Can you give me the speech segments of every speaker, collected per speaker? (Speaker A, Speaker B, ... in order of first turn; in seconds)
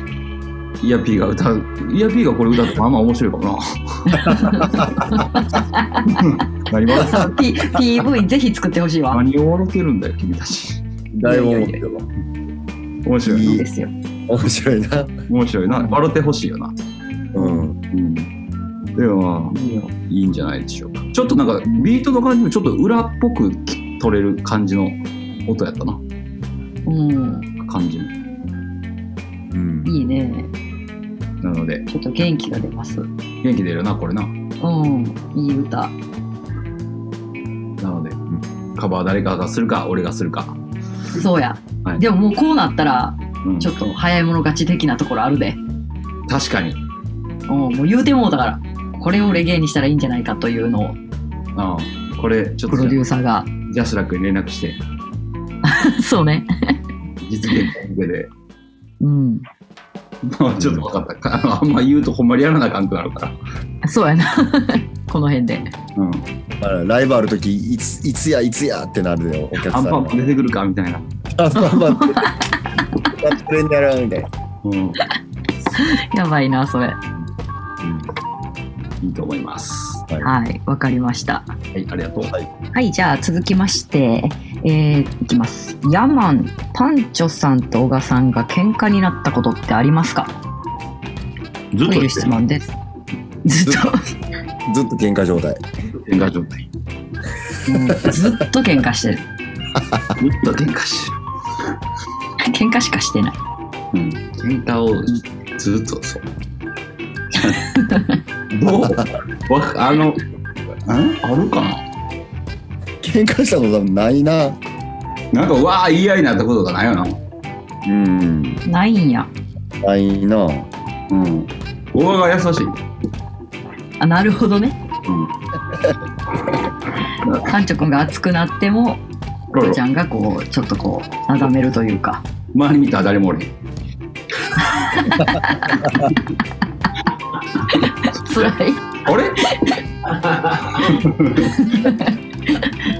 Speaker A: 0.8-4.3, 6.1-7.4, 9.1-10.8, 13.1-13.6, 15.3-16.7, 17.9-18.3, 18.9-19.6, 20.1-26.0, 27.6-28.1, 31.4-31.9, 33.4-34.3, 37.8-38.2, 38.8-40.6, 43.4-43.7, 46.3-46.8, 49.1-49.4, 51.6-53.0, 53.7-54.8, 57.2-58.3, 60.2-63.4, 66.0-66.3, 69.6-71.1, 74.6-75.0, 79.0-80.1, 81.7-82.3, 91.7-92.4, 96.0-96.7, 100.2-101.2, 103.9-106.3, 108.5-110.2, 110.9-111.8, 115.3-117.2, 121.1-122.8, 127.2-127.5, 129.5-129.8, 132.5-133.5, 139.1-139.6, 140.2-141.6
Speaker B: 4.1-6.3, 6.9-9.2, 11.2-11.8, 13.4-13.9, 15.7-16.0, 17.4-17.7, 19.5-19.9, 26.9-27.5, 29.9-30.5, 31.9-33.1, 34.6-36.0, 41.1-45.6, 47.5-51.0, 52.7-53.5, 55.6-56.8, 59.0-59.5, 63.8-65.7, 71.6-72.4, 75.8-77.0, 80.2-81.5, 82.7-90.3, 91.8-92.7, 93.5-94.1, 97.7-99.2, 102.4-103.4, 107.4-108.2, 118.7-119.3, 124.0-124.8, 127.5-129.0, 129.6-132.2, 134.6-136.2, 137.6-139.8, 141.4-142.8
Speaker C: 4.3-4.9, 11.1-12.1, 13.2-13.6, 14.3-15.1, 17.3-17.8, 29.5-29.9, 60.6-60.9, 66.6-70.3, 71.3-72.3, 73.0-74.3, 77.8-78.1, 82.2-82.5, 94.7-95.6, 99.8-100.1, 113.0-114.6, 117.8-118.6, 119.8-120.7